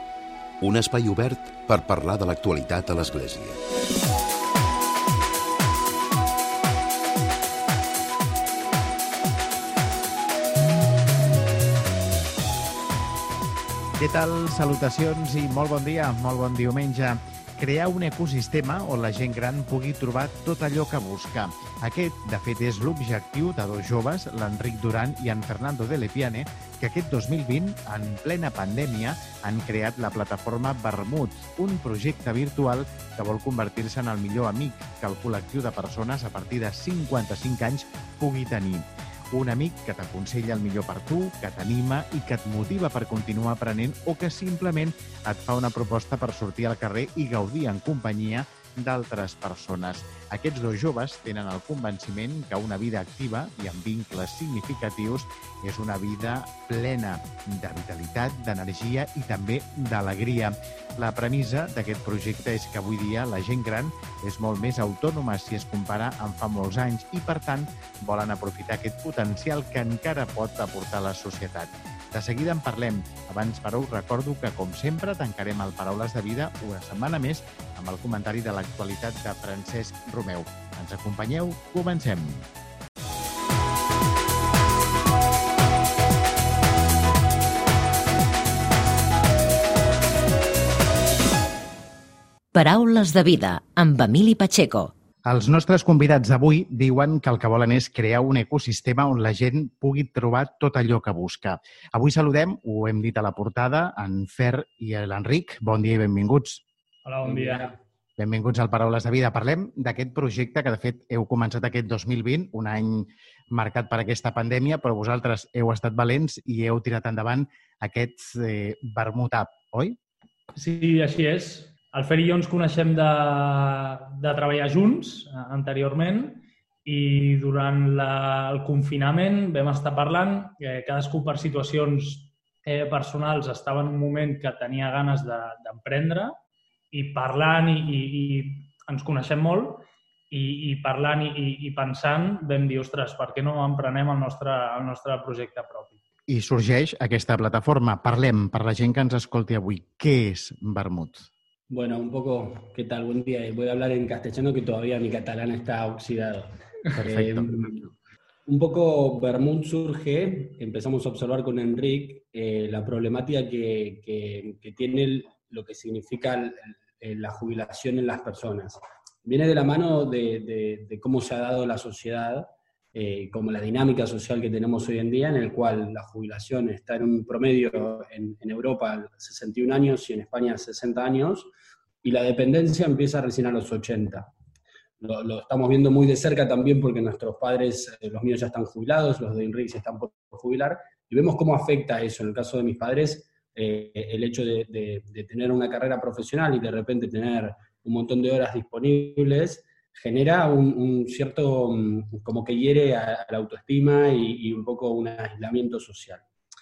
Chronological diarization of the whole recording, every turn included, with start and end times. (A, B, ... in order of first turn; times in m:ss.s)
0:00.6-0:03.6 A
0:14.0-1:22.5 B
1:32.5-1:34.9 C
1:35.2-1:46.6 B
1:47.0-1:47.7 D
1:47.2-1:47.8 E
1:48.2-2:00.0 B
2:00.6-2:16.4 D
2:16.9-2:26.0 D
2:26.3-2:31.3 B
2:31.7-2:37.9 E
2:36.9-2:37.5 B
2:38.5-3:01.5 E
3:02.0-3:04.3 E
3:05.0-3:26.2 E